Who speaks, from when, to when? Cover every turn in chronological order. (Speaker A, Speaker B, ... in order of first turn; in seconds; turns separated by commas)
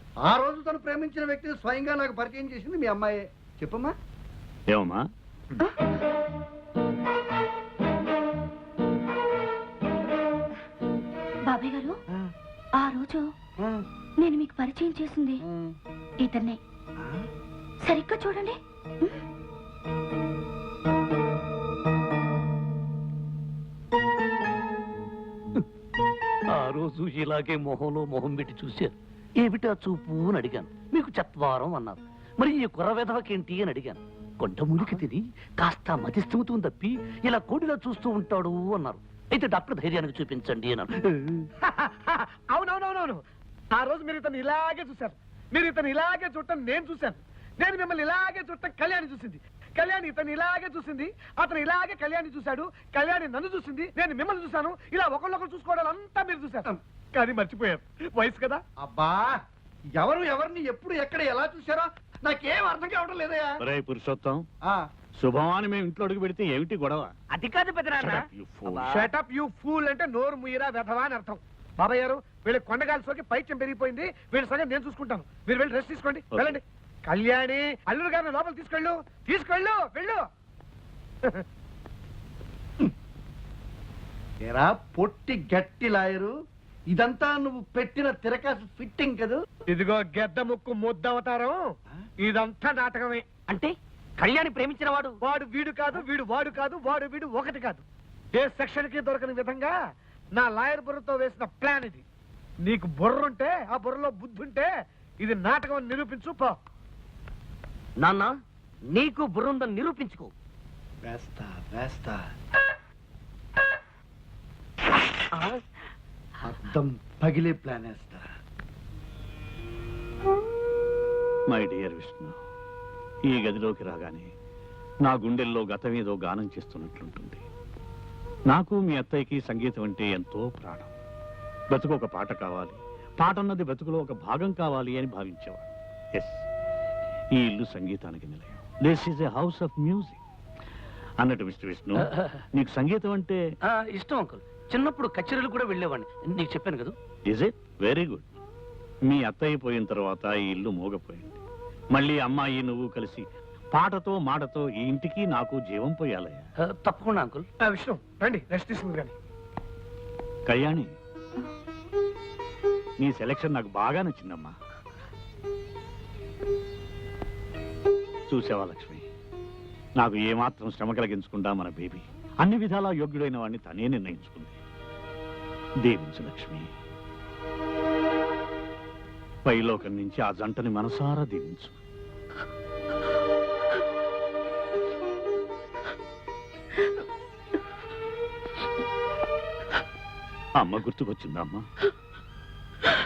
Speaker A: 0.2-3.9, Speaker B: 4.7-5.0, Speaker C: 11.5-12.0, Speaker C: 12.8-13.2, Speaker C: 14.2-15.4, Speaker A: 15.5-15.8, Speaker C: 16.2-16.6, Speaker C: 17.8-19.2, Speaker D: 26.5-41.5, Speaker E: 41.6-58.6, Speaker A: 58.8-59.3, Speaker A: 60.0-63.6, Speaker B: 63.6-64.4, Speaker B: 65.2-67.1, Speaker F: 67.3-69.0, Speaker B: 68.0-68.9, Speaker E: 68.9-80.2, Speaker B: 76.3-76.6, Speaker A: 84.5-86.3, Speaker A: 86.9-89.4, Speaker E: 89.7-91.6, Speaker E: 92.2-93.2, Speaker F: 93.5-95.2, Speaker E: 95.2-99.7, Speaker E: 100.3-102.0, Speaker E: 102.6-104.7, Speaker E: 105.2-106.6, Speaker F: 108.0-108.4, Speaker F: 108.9-110.3, Speaker A: 111.0-112.2, Speaker A: 116.5-118.2, Speaker B: 121.5-122.4, Speaker B: 123.3-124.3, Speaker B: 125.1-127.4, Speaker B: 128.5-130.9, Speaker B: 131.7-136.4, Speaker B: 137.4-140.2, Speaker B: 141.2-143.4, Speaker D: 142.0-142.3, Speaker D: 143.7-146.9, Speaker B: 147.3-148.3, Speaker B: 149.1-151.4, Speaker B: 151.9-156.5, Speaker D: 156.8-157.5, Speaker E: 157.7-159.2, Speaker B: 160.5-160.9, Speaker B: 163.0-164.6, Speaker B: 168.3-169.1, Speaker B: 170.0-174.6, Speaker B: 175.9-176.7, Speaker B: 179.4-181.8, Speaker B: 190.6-191.7